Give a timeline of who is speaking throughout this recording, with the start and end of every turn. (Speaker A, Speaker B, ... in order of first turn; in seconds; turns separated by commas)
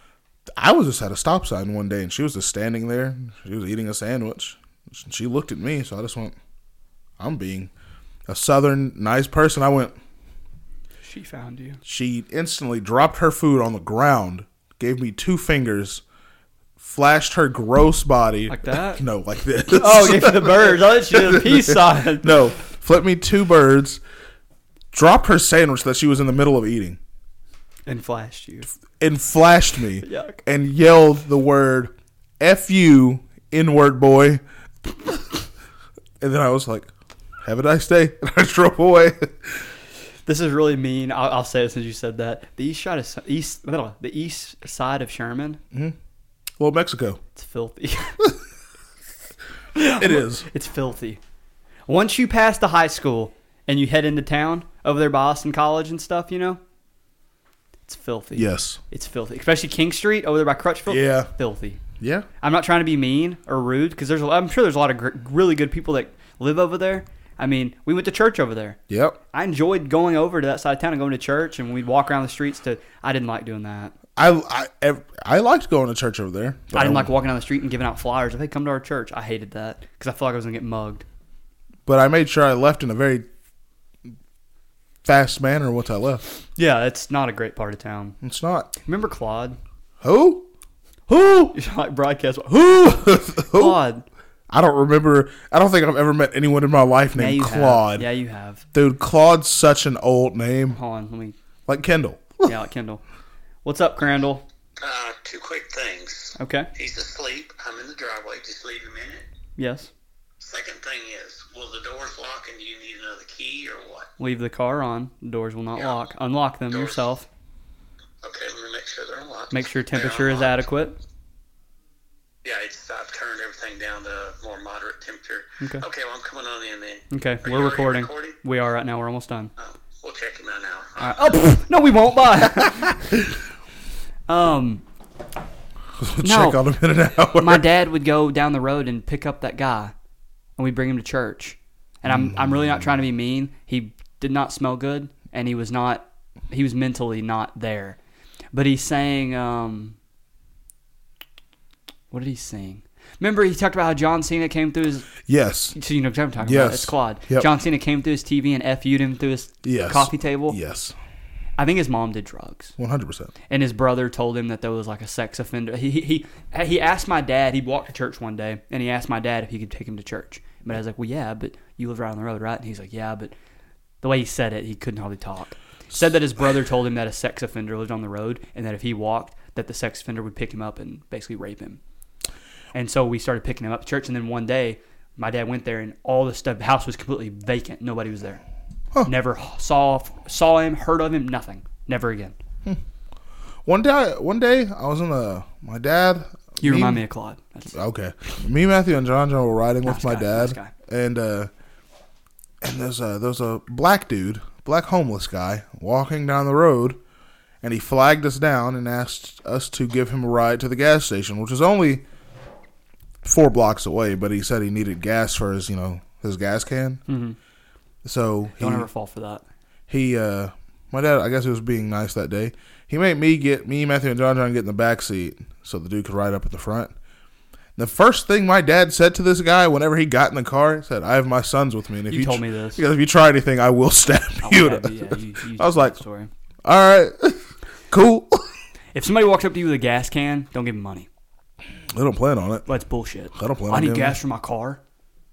Speaker A: 0.6-6.4, Speaker A: 7.2-7.7, Speaker A: 8.3-9.9, Speaker B: 11.0-11.8, Speaker A: 11.8-16.0, Speaker A: 16.8-24.0, Speaker B: 18.5-19.0, Speaker B: 19.7-22.4, Speaker A: 24.9-27.0, Speaker B: 27.9-28.7, Speaker A: 29.0-34.4, Speaker B: 30.0-30.4, Speaker A: 36.2-36.9, Speaker A: 37.4-39.6, Speaker B: 40.2-45.6, Speaker A: 46.6-47.2, Speaker B: 47.3-48.2, Speaker B: 49.7-51.2, Speaker A: 50.0-50.5, Speaker B: 51.9-56.6, Speaker B: 57.9-61.8, Speaker A: 58.3-58.8, Speaker A: 60.9-61.3, Speaker A: 62.0-62.3, Speaker B: 62.4-68.8, Speaker A: 68.9-69.2, Speaker B: 69.3-73.9, Speaker A: 74.2-77.1, Speaker B: 76.7-81.0, Speaker A: 81.8-83.3, Speaker A: 85.0-86.2, Speaker B: 86.5-88.2, Speaker A: 88.2-88.7, Speaker B: 88.8-89.6, Speaker A: 90.0-90.5, Speaker A: 91.1-91.5, Speaker B: 91.5-94.0, Speaker A: 92.6-93.8, Speaker A: 94.5-98.1, Speaker B: 97.1-98.6, Speaker A: 98.7-100.8, Speaker B: 100.7-101.3, Speaker A: 101.7-102.5, Speaker B: 102.4-103.0, Speaker B: 103.6-104.4, Speaker C: 104.8-109.2, Speaker B: 106.4-106.7, Speaker B: 109.6-109.9, Speaker C: 110.4-114.1, Speaker B: 114.2-117.3, Speaker C: 115.8-116.0, Speaker C: 116.7-117.0, Speaker C: 118.2-120.6, Speaker B: 119.5-121.0, Speaker C: 122.4-128.4, Speaker B: 127.1-129.5, Speaker C: 129.6-131.3, Speaker B: 131.0-133.1, Speaker B: 134.3-134.8, Speaker A: 136.0-137.7, Speaker B: 136.2-136.6, Speaker B: 137.3-139.9, Speaker B: 140.6-148.0, Speaker A: 142.1-142.8, Speaker B: 148.5-149.9, Speaker B: 152.1-155.1, Speaker A: 155.2-155.7, Speaker B: 155.7-160.6, Speaker A: 156.4-157.5, Speaker A: 159.6-160.9, Speaker B: 161.6-162.7, Speaker A: 162.8-163.3, Speaker B: 163.5-173.3, Speaker B: 174.0-181.8, Speaker B: 182.7-188.4, Speaker B: 189.0-192.3, Speaker A: 193.6-197.0, Speaker B: 196.6-197.7, Speaker A: 197.7-201.5, Speaker B: 199.8-200.7, Speaker A: 202.6-207.0, Speaker A: 207.6-212.0, Speaker A: 213.2-217.0, Speaker B: 217.1-217.4, Speaker A: 218.0-218.9, Speaker B: 218.6-219.4, Speaker A: 219.9-226.9, Speaker A: 227.8-236.0, Speaker B: 232.1-232.8, Speaker B: 234.4-236.3, Speaker A: 236.6-238.5, Speaker B: 238.9-241.1, Speaker A: 241.9-242.7, Speaker B: 242.7-244.8, Speaker A: 243.3-244.2